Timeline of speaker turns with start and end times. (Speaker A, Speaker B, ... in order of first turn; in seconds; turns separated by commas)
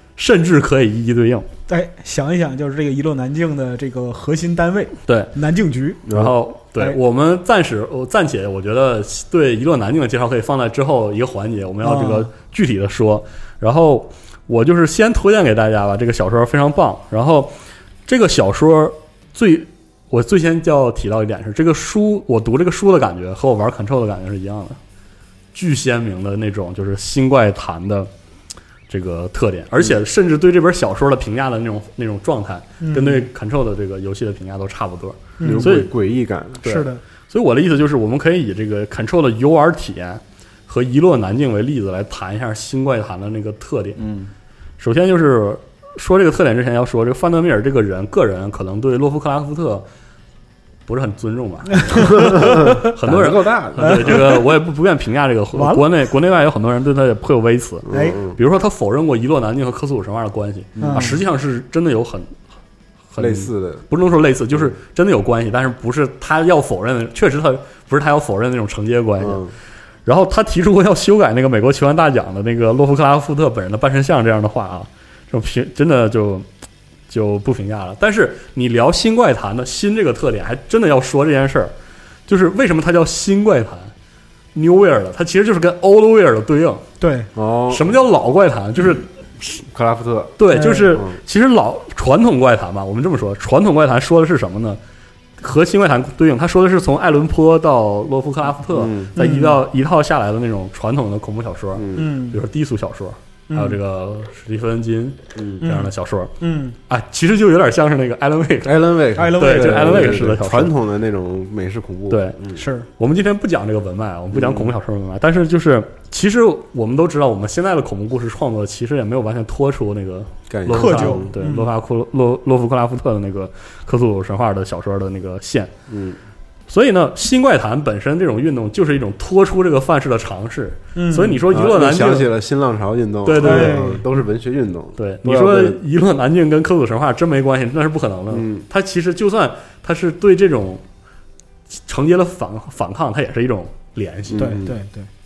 Speaker A: 0.2-1.5, Speaker B: 1.7-6.0, Speaker A: 5.1-5.3, Speaker C: 6.1-6.3, Speaker A: 6.1-17.6, Speaker B: 11.8-12.3, Speaker A: 18.1-24.8, Speaker A: 25.5-28.1, Speaker A: 28.9-35.9, Speaker B: 32.8-33.3, Speaker B: 35.4-35.7, Speaker C: 35.4-36.6, Speaker A: 36.6-44.1, Speaker B: 36.6-37.0, Speaker C: 44.0-44.3, Speaker A: 44.8-49.9, Speaker A: 50.9-62.3, Speaker B: 51.8-52.9, Speaker C: 51.9-54.3, Speaker B: 53.8-54.5, Speaker B: 55.5-55.9, Speaker C: 57.9-58.4, Speaker B: 57.9-58.2, Speaker C: 60.8-61.2, Speaker B: 60.8-61.2, Speaker A: 63.1-69.4, Speaker C: 63.2-63.9, Speaker C: 69.2-69.5, Speaker A: 70.1-76.5, Speaker A: 77.1-81.7, Speaker A: 82.3-83.9, Speaker A: 84.5-86.8, Speaker B: 87.0-87.3, Speaker C: 87.3-88.0, Speaker A: 87.7-89.6, Speaker C: 89.7-90.4, Speaker A: 90.4-94.8, Speaker B: 90.5-90.9, Speaker C: 90.9-91.2, Speaker A: 95.4-106.3, Speaker C: 98.7-99.1, Speaker B: 99.2-99.6, Speaker C: 101.8-102.1, Speaker B: 102.0-102.4, Speaker B: 103.5-103.8, Speaker C: 105.4-105.6, Speaker B: 105.6-106.8, Speaker A: 106.9-108.8, Speaker C: 108.6-112.6, Speaker B: 109.2-110.2, Speaker A: 109.4-110.7, Speaker A: 112.1-112.4, Speaker B: 112.6-112.9, Speaker A: 113.0-125.7, Speaker C: 114.3-114.7, Speaker C: 120.5-121.3, Speaker B: 120.7-121.7, Speaker C: 125.9-126.2, Speaker A: 126.7-132.3, Speaker B: 130.9-131.4, Speaker C: 131.5-135.8, Speaker A: 133.2-133.8, Speaker B: 133.4-134.1, Speaker A: 135.0-140.8, Speaker C: 138.3-138.7, Speaker A: 141.9-144.6, Speaker C: 144.3-144.8, Speaker B: 144.4-145.1